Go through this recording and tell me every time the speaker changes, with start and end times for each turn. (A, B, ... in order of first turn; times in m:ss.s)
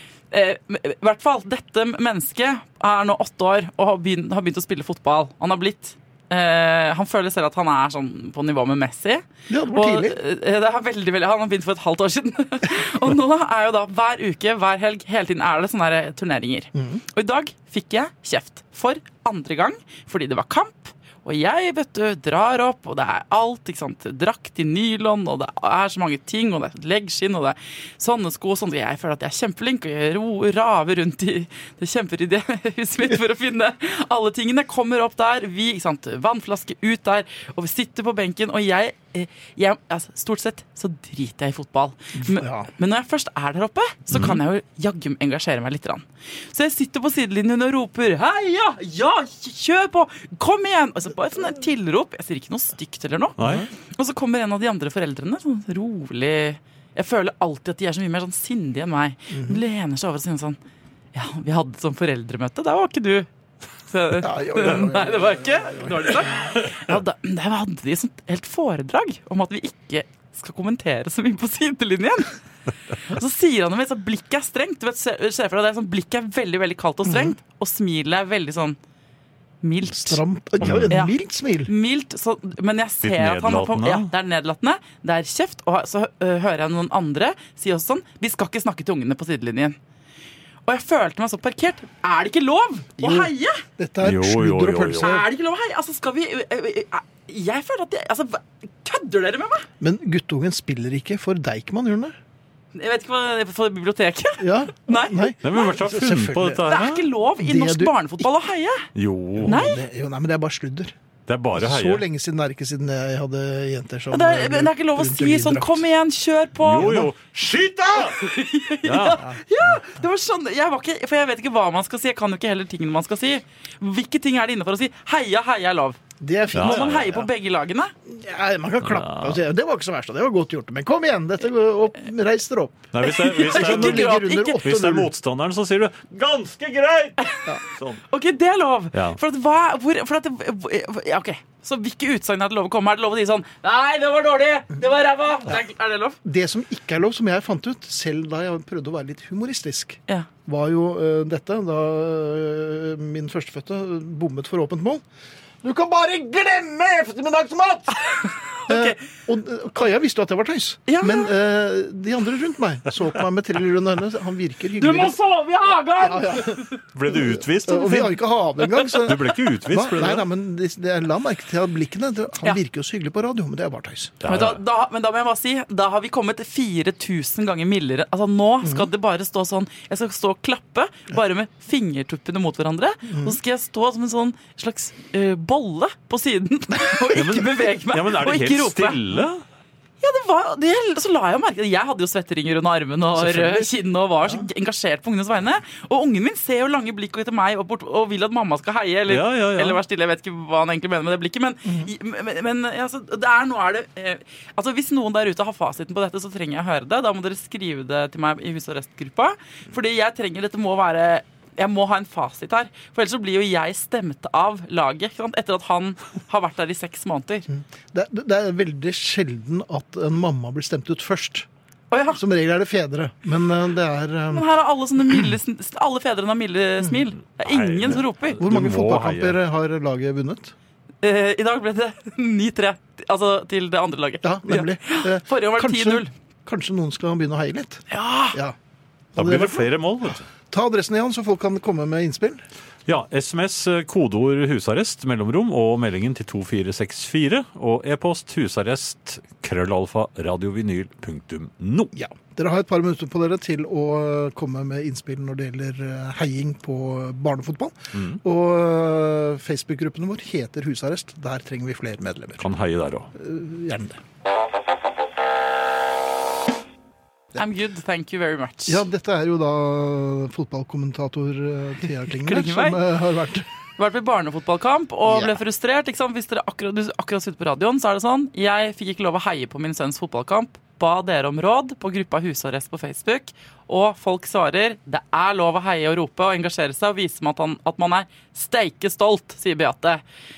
0:00.3-1:00.6 A
0:09.5-0:10.2 B
0:16.8-0:17.0 B
0:42.2-0:42.7 B
0:44.1-0:44.4 C
0:53.4-0:53.7 C
0:53.4-0:53.7 B
0:59.3-0:59.6 B
1:01.1-1:03.3 A
1:03.9-1:12.4 A
1:04.2-1:06.5 B
1:13.0-1:18.8 A
1:17.0-1:17.4 B
1:19.6-1:20.2 A
1:19.9-1:21.7 B
1:20.6-1:20.9 C
1:20.9-1:21.1 A
1:21.7-1:29.8 A
1:23.0-1:24.1 C
1:30.7-1:33.6 A
1:33.0-1:35.3 B
1:34.0-1:35.1 C
1:35.0-1:39.7 A
1:39.8-1:42.2 B
1:42.7-1:45.7 A
1:44.4-1:46.7 B
1:45.4-1:47.1 C
1:46.7-1:48.9 A
1:47.4-1:48.3 B
1:49.0-1:49.7 C
1:49.4-1:51.0 B
1:49.5-1:49.8 A
1:51.3-1:52.0 C
1:51.5-1:55.9 B
1:54.1-1:57.0 A
1:56.6-1:58.3 C
1:56.8-1:57.1 B
1:58.0-2:06.0 A
1:58.8-1:59.3 C
1:59.2-1:59.8 B
2:06.2-2:07.3 B
2:06.5-2:07.9 A
2:06.5-2:07.1 C
2:08.1-2:15.1 B
2:08.8-2:09.4 C
2:12.9-2:18.0 C
2:13.0-2:14.6 A
2:17.2-2:17.5 A
2:18.1-2:26.2 A
2:26.2-2:35.0 B
2:35.6-2:38.1 B
2:38.1-2:39.0 A
2:38.7-2:45.2 B
2:40.9-2:41.3 A
2:44.8-2:46.8 A
2:46.0-2:54.2 B
2:46.9-2:48.2 C
2:49.0-2:50.2 C
2:54.2-2:54.6 C
2:54.2-3:09.2 A
2:58.6-2:58.9 B
3:03.1-3:03.4 B
3:07.1-3:09.4 C
3:10.0-3:37.5 A
3:13.4-3:13.6 B
3:19.1-3:19.8 C
3:21.6-3:21.9 B
3:37.5-3:41.5 B
3:41.9-3:42.2 A
3:42.1-3:44.5 B
3:44.3-3:48.4 A
3:47.3-3:49.4 C
3:48.4-3:50.5 B
3:51.0-3:56.1 A
3:54.2-3:58.6 B
3:57.9-3:58.4 A
3:59.1-4:02.4 B
3:59.2-4:00.3 C
4:02.9-4:11.9 C
4:11.9-4:22.5 B
4:17.9-4:18.2 C
4:22.4-4:23.1 C
4:23.2-4:24.0 B
4:27.4-4:28.8 A
4:28.7-4:33.5 B
4:32.1-4:32.8 A
4:33.8-4:50.0 A
4:35.1-4:35.4 B